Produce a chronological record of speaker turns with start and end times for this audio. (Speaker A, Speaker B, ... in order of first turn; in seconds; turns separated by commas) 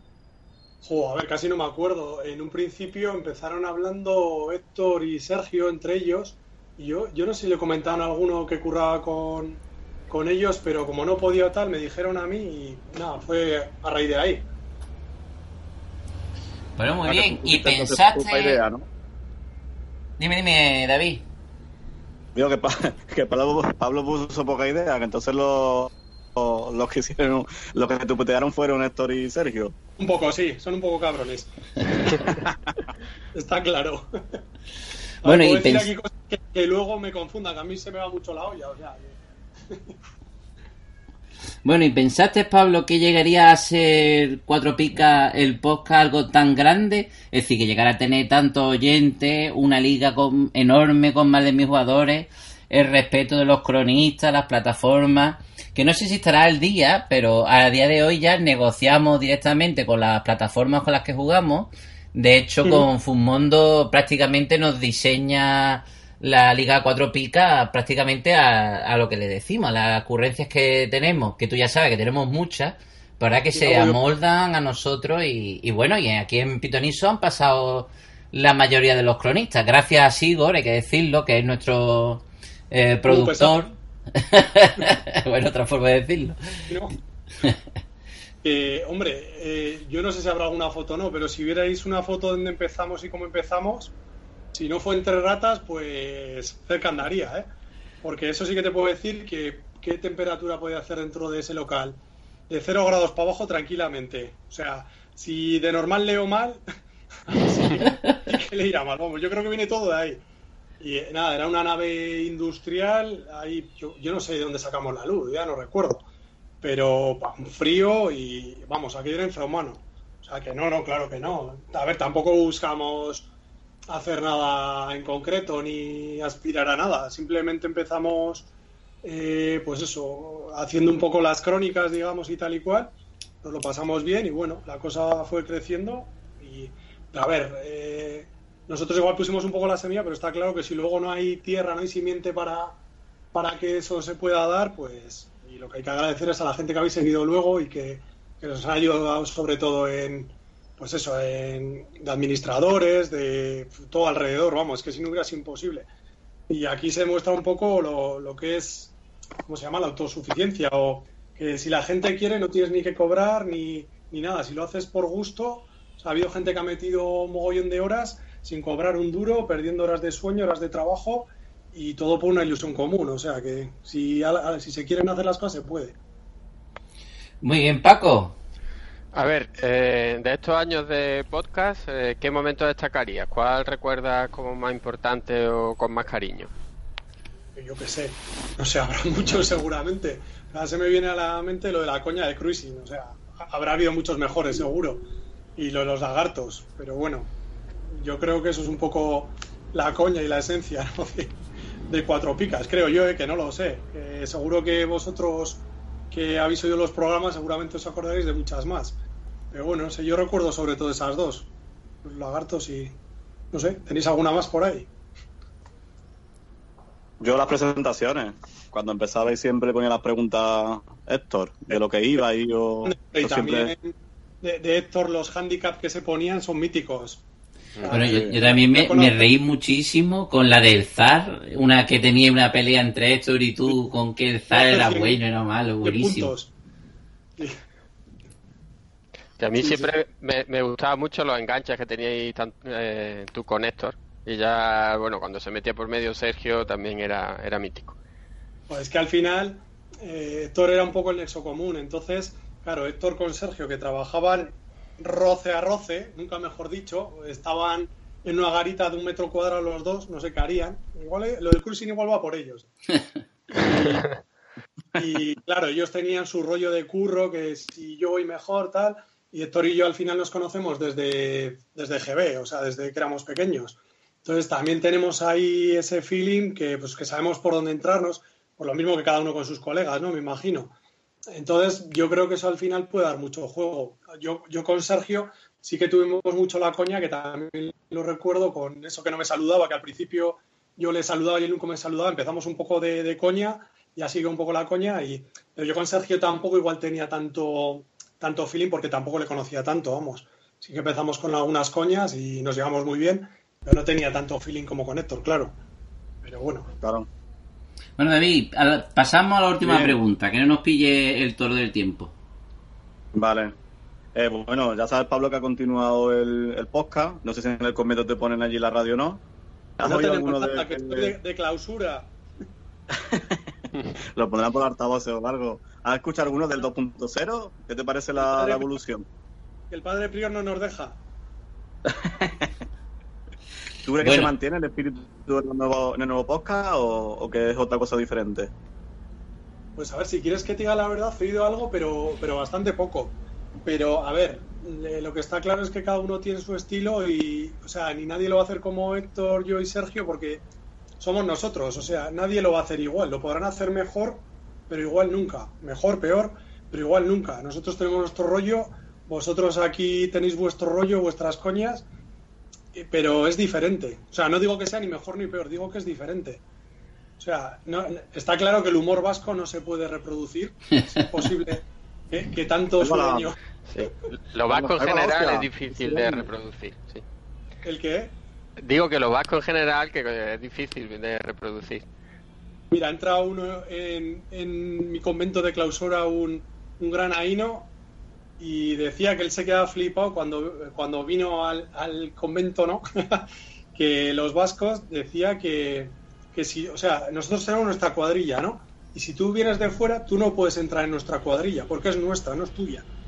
Speaker A: 0.8-14.4, Speaker B: 16.8-18.6, Speaker C: 17.1-18.9, Speaker B: 20.2-21.2, Speaker C: 22.3-29.7, Speaker A: 30.0-32.3, Speaker A: 33.3-34.4, Speaker A: 35.2-39.2, Speaker B: 35.2-35.9, Speaker A: 39.7-39.9, Speaker B: 41.6-86.3, Speaker A: 73.5-74.0, Speaker A: 83.1-83.7, Speaker A: 86.7-87.0, Speaker A: 88.4-93.9, Speaker A: 94.5-97.5, Speaker A: 98.0-106.6, Speaker A: 107.3-110.2, Speaker A: 110.8-116.0, Speaker A: 116.6-123.3, Speaker A: 123.9-128.5, Speaker A: 129.0-142.8, Speaker A: 143.3-155.9, Speaker A: 156.5-158.9, Speaker A: 159.5-175.9, Speaker B: 177.4-178.3, Speaker D: 179.1-186.5, Speaker A: 187.6-197.3, Speaker A: 197.9-201.3, Speaker A: 201.9-209.0, Speaker A: 209.5-211.5, Speaker A: 212.0-212.9, Speaker A: 213.5-214.9, Speaker C: 217.2-223.7, Speaker A: 222.8-227.2, Speaker A: 227.8-229.2, Speaker B: 227.9-236.3, Speaker C: 227.9-228.3, Speaker A: 234.5-235.2, Speaker A: 235.8-236.5, Speaker D: 239.4-247.9, Speaker A: 239.6-239.9, Speaker A: 248.7-262.7, Speaker A: 263.5-264.1, Speaker A: 264.9-280.7, Speaker A: 281.3-305.6, Speaker A: 306.2-306.7, Speaker C: 306.8-307.1, Speaker B: 308.0-312.1, Speaker C: 309.6-309.9, Speaker C: 313.1-313.5, Speaker C: 314.1-319.2, Speaker C: 319.8-321.1, Speaker A: 319.8-322.1, Speaker C: 322.9-323.4, Speaker C: 324.1-329.1, Speaker A: 328.2-328.7, Speaker A: 329.7-331.0, Speaker C: 331.9-332.5, Speaker C: 333.8-338.5, Speaker B: 334.0-334.3, Speaker A: 339.8-350.4, Speaker A: 351.0-361.9, Speaker A: 362.7-366.4, Speaker A: 367.2-373.4, Speaker C: 372.8-373.3, Speaker D: 373.7-377.0, Speaker C: 374.5-376.3, Speaker A: 377.6-378.1, Speaker D: 378.6-381.9, Speaker A: 382.7-387.7, Speaker A: 388.4-402.9